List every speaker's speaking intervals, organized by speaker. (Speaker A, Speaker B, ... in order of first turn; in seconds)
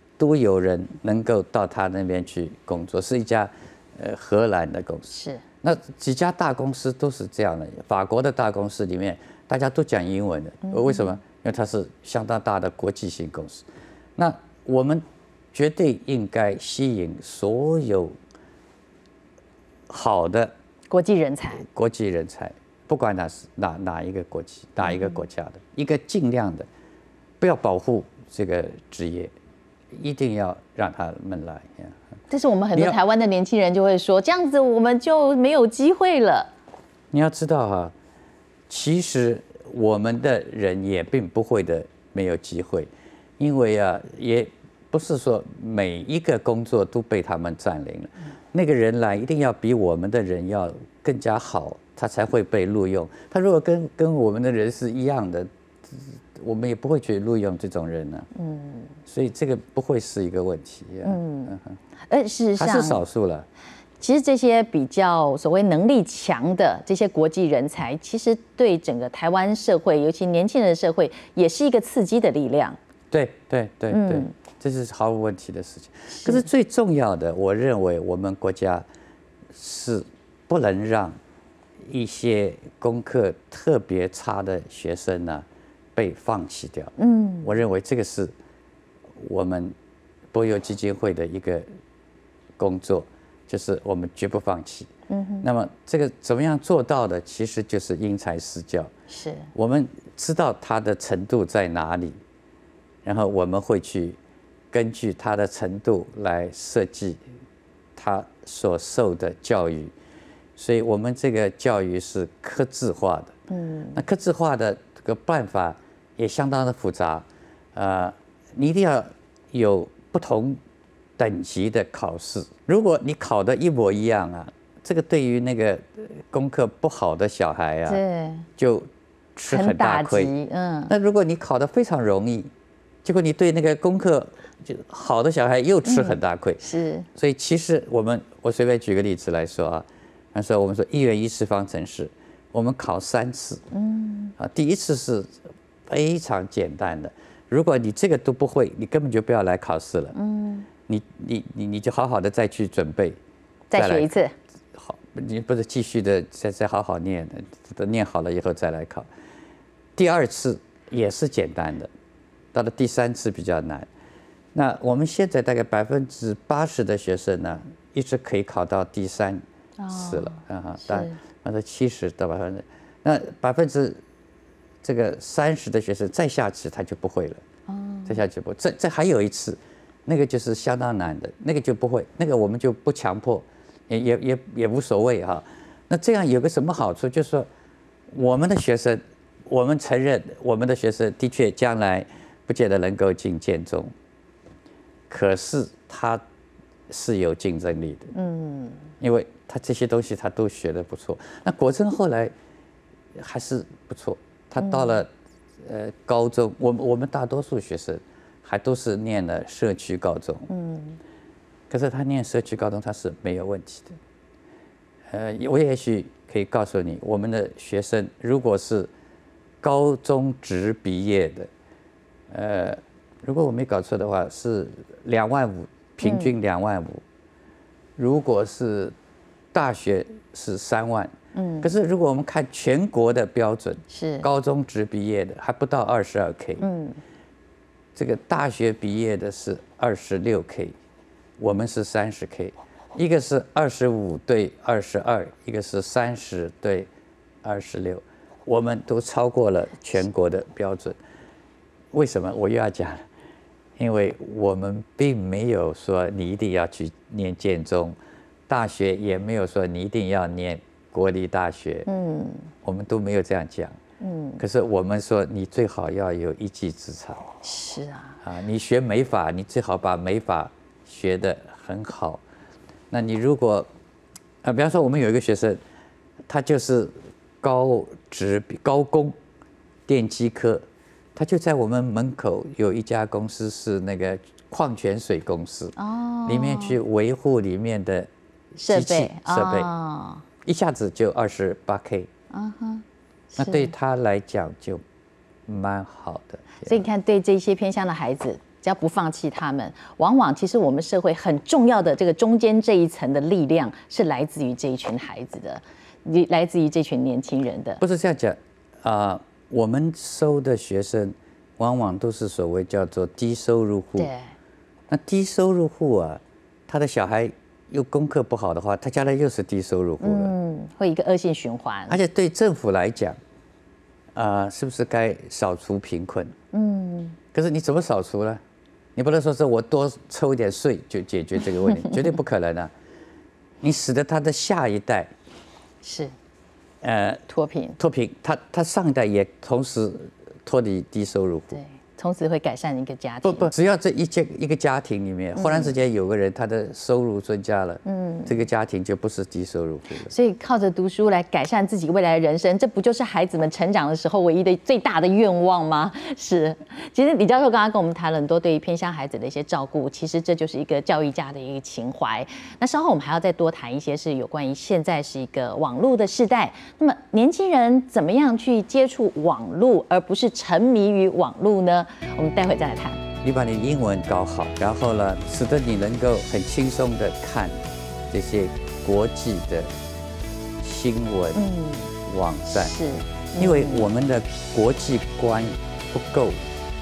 Speaker A: 0.2-5.1, 5.6-13.6, 14.2-18.1, 19.9-20.5, 21.6-26.7, 27.4-29.3, 29.9-31.9, 37.1-37.9, 38.7-58.3, 59.0-61.7, 62.6-63.5, 73.1-78.8, 79.5-81.2, 81.8-88.3, 89.2-89.7, 90.3-91.7, 92.6-94.9, 95.4-98.9, 99.5-102.2, 103.0-104.2, 104.7-107.2, 108.0-109.9, 110.5-113.3, 113.9-120.6, 121.2-128.0, 128.6-130.3, 130.9-132.5, 133.0-136.6, 137.1-143.6, 144.4-145.4, 145.9-150.1, 150.9-153.2, 153.7-154.2, 154.7-159.1, 159.9-161.9, 162.5-163.9, 164.5-174.0, 174.8-177.4, 178.1-187.5, 188.1-193.9, 195.1-196.2, 196.9-198.1, 199.0-202.3, 203.2-205.1, 205.6-210.5, 211.7-214.0, 215.1-218.9, 219.6-221.5, 222.3-227.0, 228.0-228.9, 229.5-236.6, 237.9-240.7, 241.4-246.9, 247.4-251.0, 251.9-253.0, 253.8-261.9, 262.6-263.8, 264.4-267.3, 268.2-272.2, 272.9-273.7, 274.4-275.6, 276.3-279.1, 279.9-280.6, 281.1-285.7, 286.2-288.1, 288.7-289.7, 290.4-292.1, 293.4-294.8, 295.5-296.9, 307.8-314.1, 314.9-320.3, 321.9-323.2, 324.1-326.3, 327.3-328.4, 328.9-332.7, 333.6-335.1, 336.8-337.2, 337.8-341.5, 343.2-350.1, 373.2-377.6, 378.1-379.7, 380.6-381.4, 382.0-382.8, 383.3-386.5
Speaker B: 5.1-5.4, 10.7-11.1, 20.9-21.6, 32.3-36.5, 58.4-58.9, 61.0-61.5, 62.1-63.0, 64.0-72.8, 73.9-74.3, 76.1-76.5, 87.0-87.5, 95.1-95.5, 99.1-99.5, 113.5-114.0, 127.9-128.5, 129.5-130.9, 135.8-137.1, 143.7-144.3, 150.1-150.7, 153.7-154.3, 169.8-171.2, 177.7-178.2, 198.1-198.9, 204.6-204.9, 210.5-211.0, 226.0-226.3, 231.3-231.7, 233.9-234.3, 236.6-237.0, 261.9-262.5, 264.0-264.4, 267.4-268.2, 285.8-286.8, 288.6-290.2, 292.3-293.7, 296.6-307.8, 314.0-314.2, 320.0-322.0, 326.5-327.2, 335.8-336.1, 337.3-337.8, 341.5-343.5, 345.4-345.7, 347.8-348.4, 350.1-373.0, 381.3-381.9, 382.5-383.9